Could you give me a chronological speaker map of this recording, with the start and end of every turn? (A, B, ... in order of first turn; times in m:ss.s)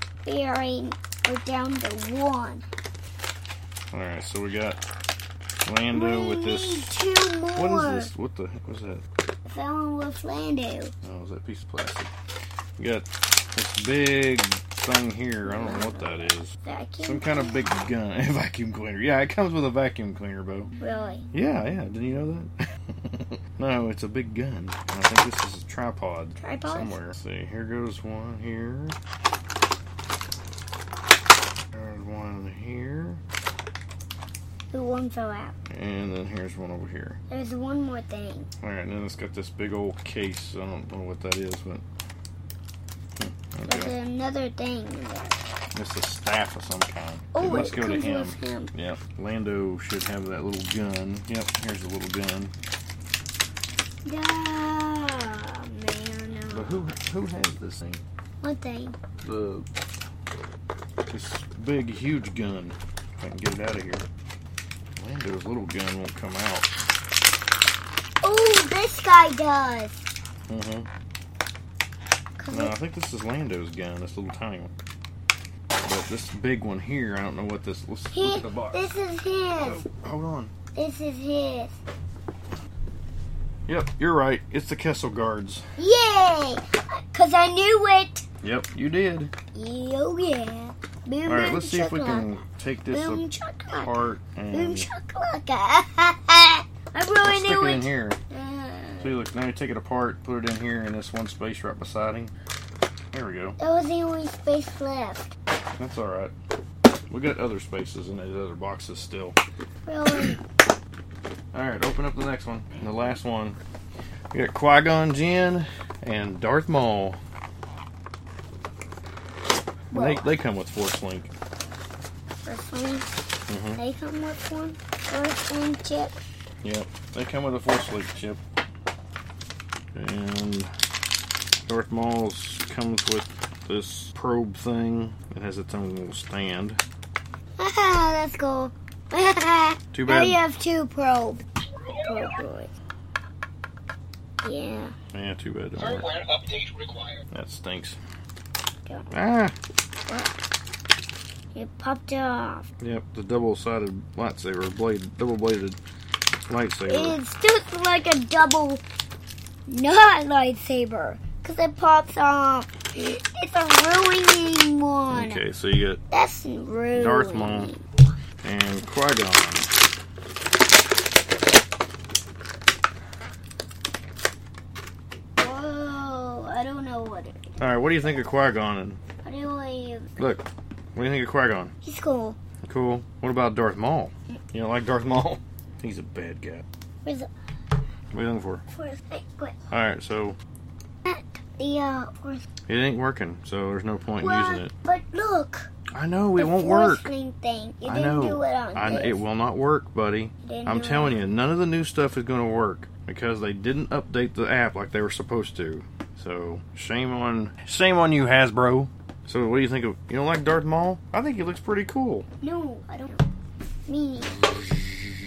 0:00.2-0:02.6 A
0:03.9-0:04.8 B
0:05.6-0:06.9 B
0:05.9-0:08.1 A
0:07.5-0:09.0 B
0:09.4-0:10.9 A
0:11.0-0:12.1 B
0:12.8-0:16.5 B
0:15.4-0:17.6 A
0:17.0-0:20.7 B
0:20.8-0:21.3 A
0:21.3-0:29.0 B
0:26.4-0:27.0 A
0:31.7-0:33.2 B
0:34.7-0:35.5 A
0:35.7-0:37.2 B
0:37.3-0:38.5 A
0:38.6-0:41.8 B
0:43.2-0:43.9 B
0:43.6-0:45.4 A
0:45.7-0:52.5 B
0:47.3-0:48.7 A
0:54.0-0:56.9 A
0:56.5-0:58.0 B
0:58.4-0:59.0 A
0:59.2-0:59.6 B
1:01.1-1:04.0 B
1:05.0-1:06.6 B
1:08.2-1:10.0 A
1:10.5-1:10.9 B
1:12.4-1:12.8 A
1:12.5-1:14.7 B
1:15.8-1:18.8 B
1:18.1-1:19.8 A
1:19.6-1:20.5 B
1:20.7-1:21.8 A
1:23.7-1:25.6 B
1:25.8-1:28.2 A
1:28.4-1:29.3 B
1:29.5-1:32.4 A
1:31.2-1:34.9 B
1:32.9-1:33.9 A
1:34.5-1:39.2 A
1:37.2-1:38.2 B
1:39.0-1:42.3 B
1:43.1-1:43.6 B
1:43.6-1:45.3 A
1:45.8-1:46.3 B
1:47.1-1:49.4 B
1:49.8-1:50.4 A
1:51.5-1:53.6 B
1:54.3-1:57.2 B
1:59.9-2:00.3 A
1:59.9-2:01.3 B
2:02.4-2:03.1 A
2:03.5-2:03.8 B
2:03.8-2:06.2 A
2:06.6-2:08.4 B
2:09.9-2:10.7 B
2:11.7-2:16.8 B
2:17.6-2:21.4 A
2:19.9-2:20.4 B
2:21.8-2:22.4 C
2:22.0-2:22.7 A
2:24.4-2:24.9 A
2:25.1-2:26.1 B
2:25.8-2:27.2 C
2:27.3-2:28.0 B
2:28.8-2:29.1 A
2:29.1-2:29.5 B
2:30.1-2:30.4 A
2:31.5-2:32.7 A
2:32.8-2:35.8 B
2:36.5-2:37.2 B
2:36.9-2:38.8 A
2:39.7-2:45.4 A
2:45.1-2:46.0 B
2:46.1-2:47.8 A
2:46.9-2:47.7 B
2:48.4-2:49.7 B
2:55.4-2:57.6 A
2:57.6-2:59.0 B
2:59.2-3:00.1 A
3:00.2-3:01.7 B
3:01.8-3:02.4 A
3:02.6-3:06.6 B
3:08.1-3:08.6 B
3:08.7-3:09.6 A
3:09.7-3:10.4 B
3:11.0-3:12.5 A
3:12.7-3:14.7 B
3:14.2-3:15.7 A
3:15.9-3:17.1 B
3:16.4-3:19.2 A
3:17.8-3:32.2 B
3:20.4-3:21.2 A
3:32.4-3:33.2 A
3:33.9-3:34.4 A
3:34.4-3:34.8 B